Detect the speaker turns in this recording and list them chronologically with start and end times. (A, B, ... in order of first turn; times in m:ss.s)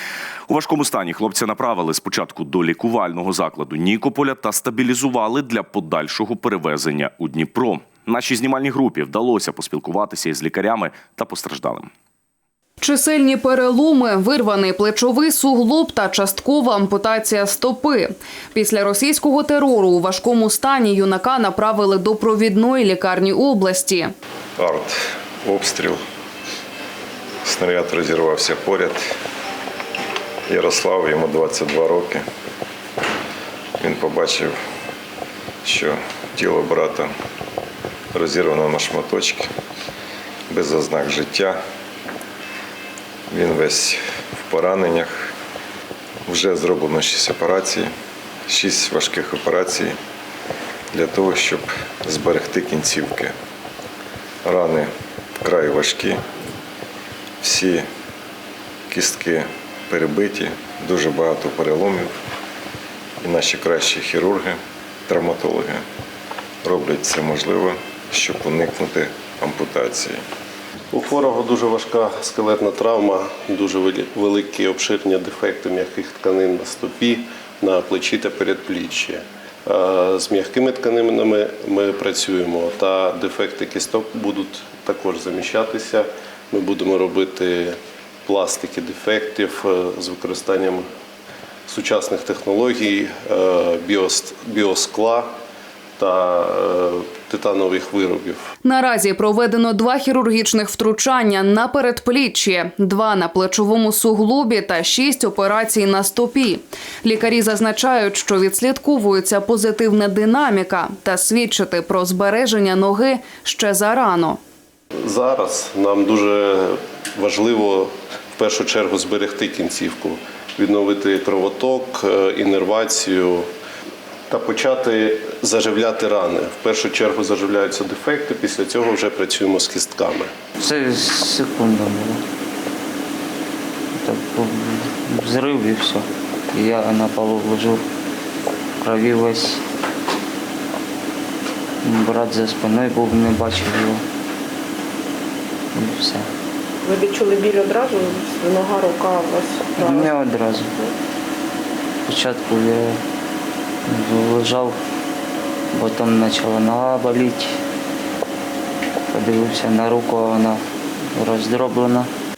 0:00.5-0:11.9 A
0:12.8-0:24.1 B
0:24.6-0:26.0 C
0:27.4-0:29.1 C
0:30.5-0:32.2 C
0:33.8-0:34.5 C
0:35.6-0:37.1 C
0:38.1-0:39.5 C
0:40.5-0:41.6 C
0:43.3-0:45.3 C
0:46.2-0:47.9 C
0:48.5-0:50.0 C
0:50.9-0:53.3 C
0:54.4-0:54.9 C
0:55.4-0:56.2 C
0:57.4-0:57.8 C
0:58.9-1:02.1 C
1:03.2-1:05.8 C
1:06.6-1:10.2 C
1:10.9-1:30.8 D
1:31.7-1:35.3 D
1:36.0-1:38.4 D
1:38.6-1:54.4 B
1:55.0-2:03.5 D
2:04.3-2:10.3 D
2:10.6-2:12.2 E
2:14.0-2:17.8 E
2:18.8-2:19.6 E
2:21.8-2:24.0 E
2:25.7-2:26.3 E
2:26.8-2:30.0 F
2:29.7-2:30.7 E
2:32.0-2:33.0 E
2:33.9-2:34.8 E
2:35.7-2:37.5 E
2:39.1-2:40.6 E
2:41.1-2:42.1 E